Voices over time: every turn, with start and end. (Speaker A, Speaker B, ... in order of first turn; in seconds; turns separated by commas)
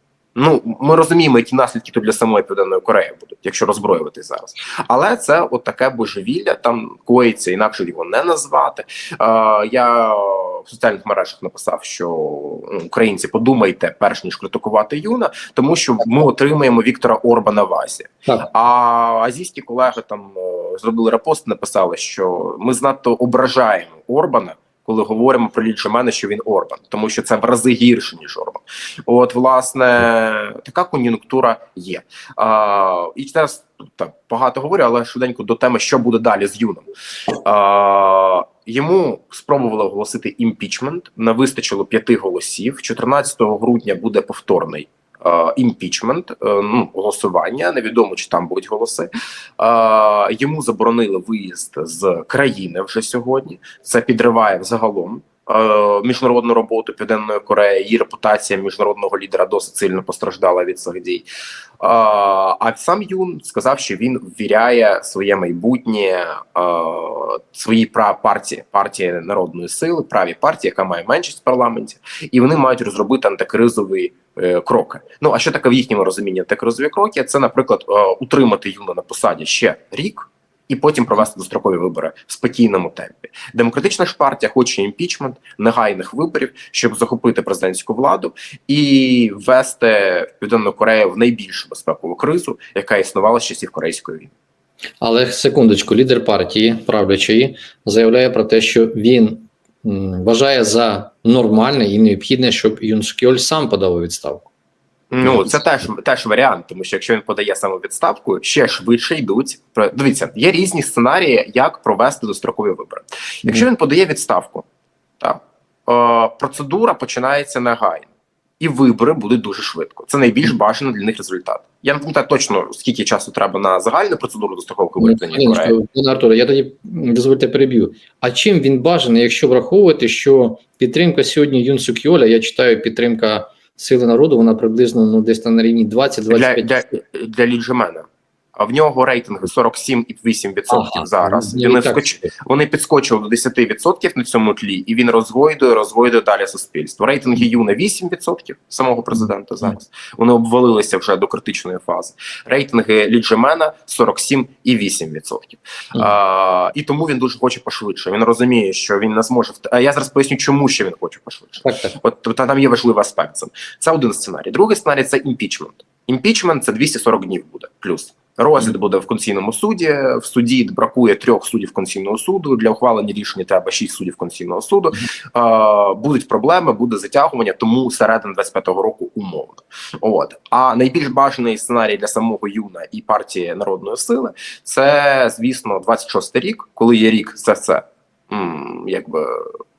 Speaker A: 0.3-36.9, Speaker A: 37.4-61.2, Speaker A: 61.8-94.3, Speaker B: 95.0-104.5, Speaker A: 105.1-114.7, Speaker B: 105.2-105.6, Speaker A: 115.2-118.1, Speaker A: 118.6-125.8, Speaker B: 125.0-136.8, Speaker A: 136.3-189.6, Speaker B: 140.7-142.3, Speaker B: 161.6-162.0